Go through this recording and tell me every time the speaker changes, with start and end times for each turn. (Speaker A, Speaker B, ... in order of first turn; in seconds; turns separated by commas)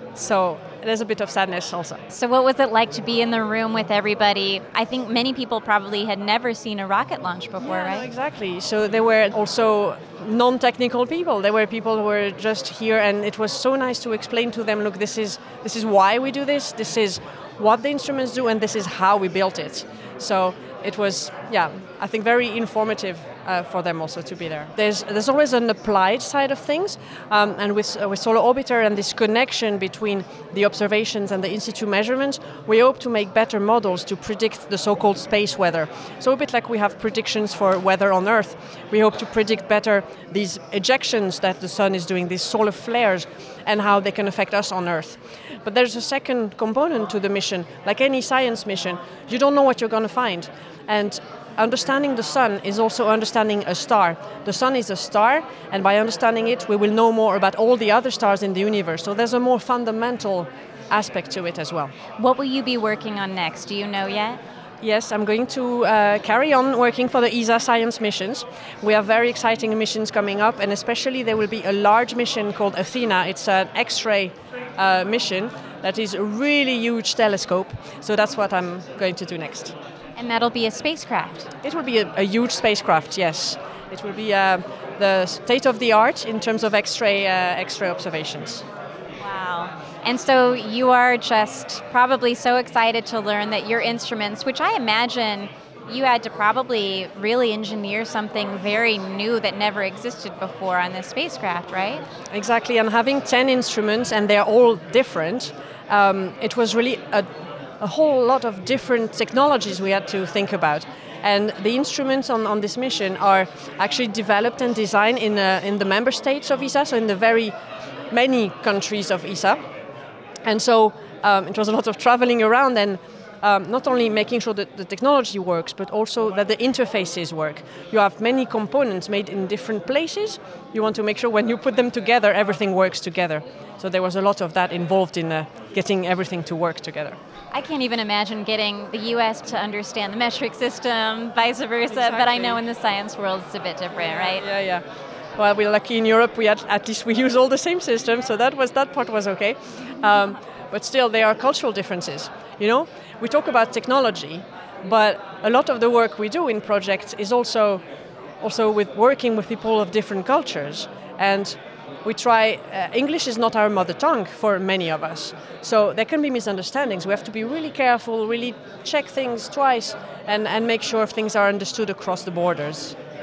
Speaker A: 0.1-2.0, Speaker B: 2.1-8.1, Speaker A: 7.6-61.9, Speaker B: 62.2-64.4, Speaker A: 64.8-79.7, Speaker B: 80.2-81.5, Speaker A: 81.6-88.6, Speaker B: 89.2-102.0, Speaker A: 102.3-107.3, Speaker A: 107.8-117.5, Speaker A: 118.1-119.6, Speaker A: 120.5-137.2, Speaker B: 137.5-144.4, Speaker A: 141.9-142.6, Speaker A: 143.9-144.8, Speaker A: 145.4-157.8, Speaker A: 158.4-172.9